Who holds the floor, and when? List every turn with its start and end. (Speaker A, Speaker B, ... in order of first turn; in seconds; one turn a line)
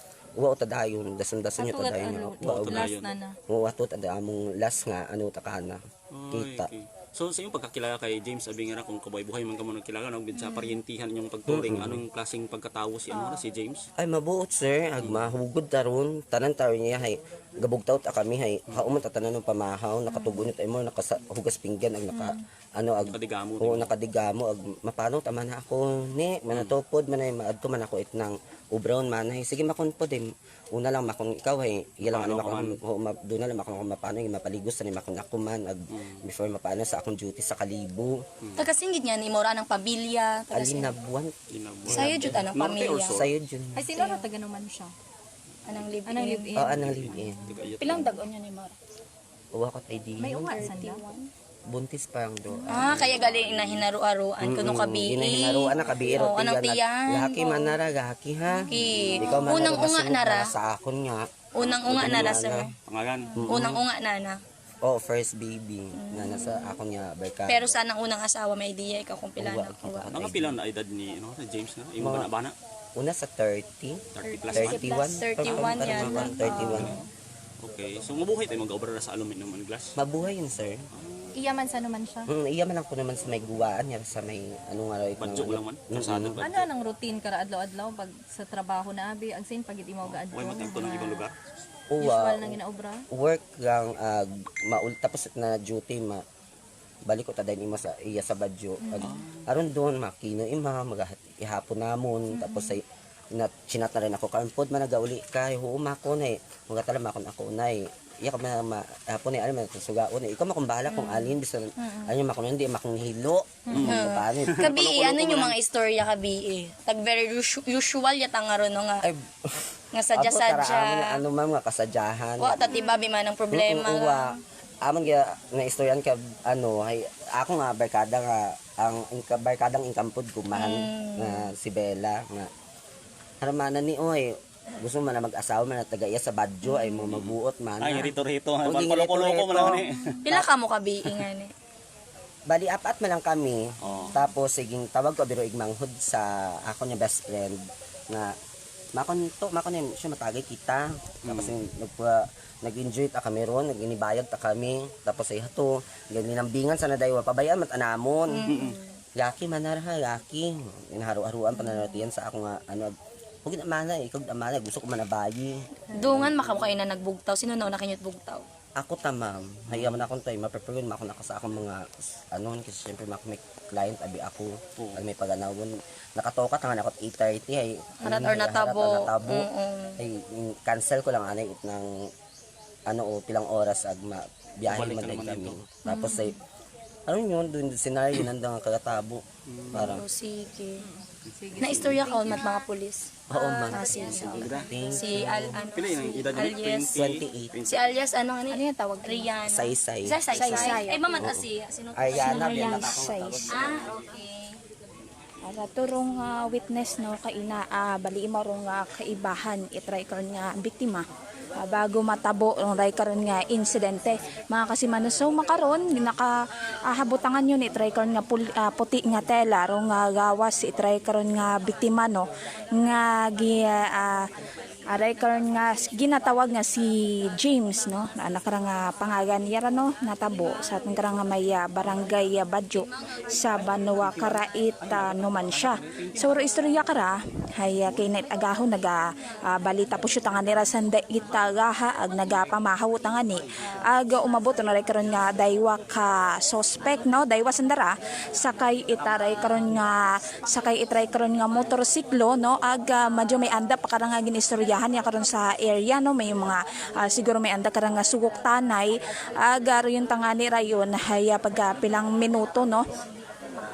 Speaker A: 0.4-3.0
Speaker B: 1.6-3.4
Speaker C: 2.4-3.1
Speaker A: 3.5-6.7
Speaker C: 6.1-13.8
Speaker D: 10.3-10.8
Speaker A: 11.5-12.0
Speaker A: 14.0-38.2
Speaker C: 15.0-15.3
Speaker C: 23.1-23.9
Speaker C: 32.0-32.8
Speaker C: 35.9-36.2
Speaker C: 38.4-38.7
Speaker D: 38.6-40.9
Speaker A: 40.5-41.3
Speaker C: 41.5-43.3
Speaker A: 41.9-42.5
Speaker D: 41.9-43.2
Speaker A: 43.1-43.9
Speaker B: 43.7-44.9
Speaker D: 44.0-44.2
Speaker D: 45.7-46.5
Speaker B: 46.1-47.0
Speaker A: 46.5-47.4
Speaker C: 46.7-48.2
Speaker E: 47.8-48.7
Speaker A: 49.5-50.6
Speaker B: 50.2-51.0
Speaker E: 50.5-51.3
Speaker A: 51.7-53.3
Speaker D: 52.7-57.7
Speaker C: 52.8-53.9
Speaker A: 54.4-62.7
Speaker C: 54.5-54.9
Speaker C: 55.7-56.3
Speaker D: 58.7-60.5
Speaker C: 58.8-59.9
Speaker D: 61.5-62.7
Speaker C: 61.6-63.7
Speaker A: 63.4-63.8
Speaker D: 63.5-64.4
Speaker A: 64.8-67.8
Speaker D: 66.0-66.8
Speaker D: 67.5-70.1
Speaker A: 69.4-70.5
Speaker C: 70.1-72.5
Speaker A: 72.0-72.3
Speaker A: 73.0-77.0
Speaker C: 74.2-77.0
Speaker D: 74.2-77.0
Speaker C: 77.6-80.0
Speaker A: 80.0-80.8
Speaker C: 80.9-81.3
Speaker B: 81.3-82.3
Speaker A: 82.3-86.4
Speaker C: 85.2-86.7
Speaker B: 86.4-91.2
Speaker C: 90.0-91.3
Speaker A: 91.9-96.2
Speaker B: 92.0-93.0
Speaker A: 97.1-102.8
Speaker B: 98.8-99.1
Speaker C: 99.0-99.4
Speaker B: 102.3-102.8
Speaker A: 103.3-114.7
Speaker B: 110.9-112.1
Speaker C: 113.7-115.5
Speaker D: 113.8-119.0
Speaker A: 119.0-122.7
Speaker D: 119.9-121.1
Speaker D: 122.4-124.4
Speaker B: 122.7-123.0
Speaker A: 123.5-124.3
Speaker A: 124.8-132.5
Speaker D: 130.5-131.5
Speaker A: 133.4-140.5
Speaker C: 137.0-140.2
Speaker D: 140.2-141.5
Speaker A: 142.5-148.3
Speaker C: 143.8-144.2
Speaker A: 148.9-158.5
Speaker C: 151.2-151.6
Speaker D: 158.3-158.8
Speaker A: 159.2-166.4
Speaker D: 165.9-168.4
Speaker C: 166.2-166.6
Speaker A: 168.8-179.5
Speaker C: 169.7-170.0
Speaker C: 174.8-175.0
Speaker D: 178.0-180.0
Speaker A: 180.0-182.1
Speaker A: 182.9-186.3
Speaker C: 184.7-185.8
Speaker D: 185.9-186.2
Speaker B: 185.9-186.3
Speaker A: 187.1-190.0
Speaker C: 189.5-190.0
Speaker D: 189.7-190.8
Speaker B: 190.8-192.7
Speaker C: 191.6-192.0
Speaker D: 191.6-196.9
Speaker A: 193.3-195.6
Speaker E: 193.7-194.2
Speaker C: 194.2-194.8
Speaker C: 195.7-197.8
Speaker A: 196.9-197.5
Speaker D: 197.7-203.0
Speaker E: 198.5-199.3
Speaker A: 199.5-201.4
Speaker E: 200.3-201.2
Speaker A: 201.9-204.0
Speaker E: 202.1-203.7
Speaker D: 203.5-204.5
Speaker E: 205.4-211.0
Speaker E: 211.6-216.3
Speaker E: 216.9-222.2
Speaker E: 222.8-224.3
Speaker E: 224.9-262.8
Speaker D: 232.7-234.5
Speaker C: 234.0-235.4
Speaker D: 238.6-238.9